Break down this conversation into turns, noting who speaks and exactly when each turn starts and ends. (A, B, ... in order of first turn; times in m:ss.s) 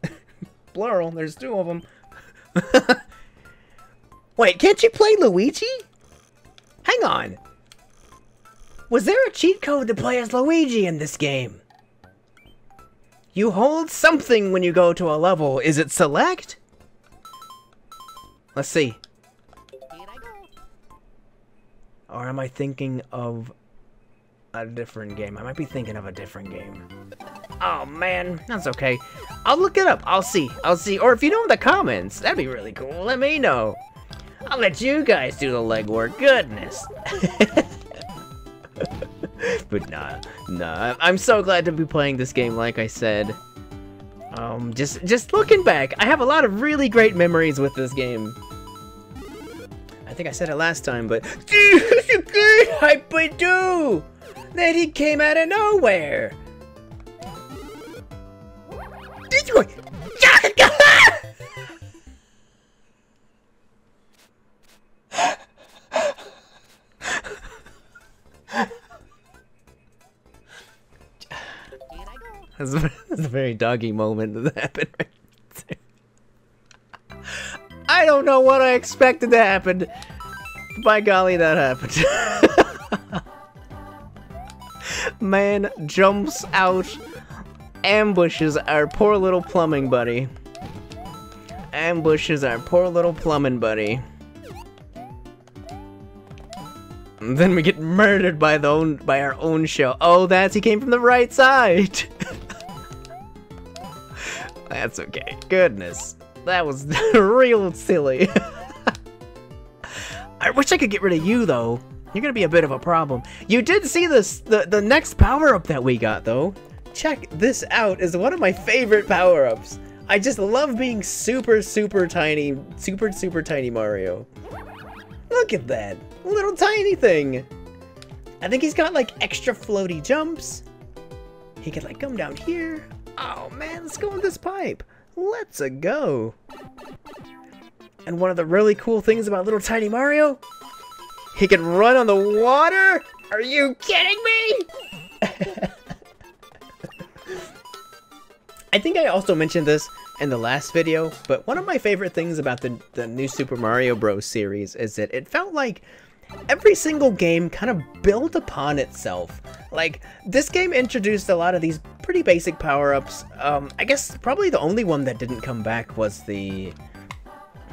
0:00.7-0:01.8 A
0:02.6-0:03.0 A
0:04.4-0:05.9 A
0:06.8-0:07.4 A
0:08.9-0:11.6 A
0:13.3-0:16.6 A
0:18.6-0:19.0 A
0:22.1-0:23.5 A
0:24.5-0:26.9 A
0:27.6-0:33.8 A
0:34.5-0:37.8 A
0:38.8-0:43.4 A
0:44.3-0:48.4 A
0:50.0-0:56.4 A
0:59.3-1:01.2 A
1:12.6-1:15.8 A
1:17.3-1:19.9 A
1:20.8-1:23.2 A
1:24.8-1:27.0 A
1:27.8-1:30.3 A
1:31.7-1:34.0 A
1:37.2-1:42.1 A
1:44.2-1:48.9 A
1:49.8-2:04.3 A
2:05.3-2:07.5 A
2:08.4-2:10.6 A
2:11.6-2:16.4 A
2:18.0-2:20.4 A
2:21.3-2:24.7 A
2:25.2-2:25.7 A
2:28.7-2:35.8 A
2:36.5-2:46.8 A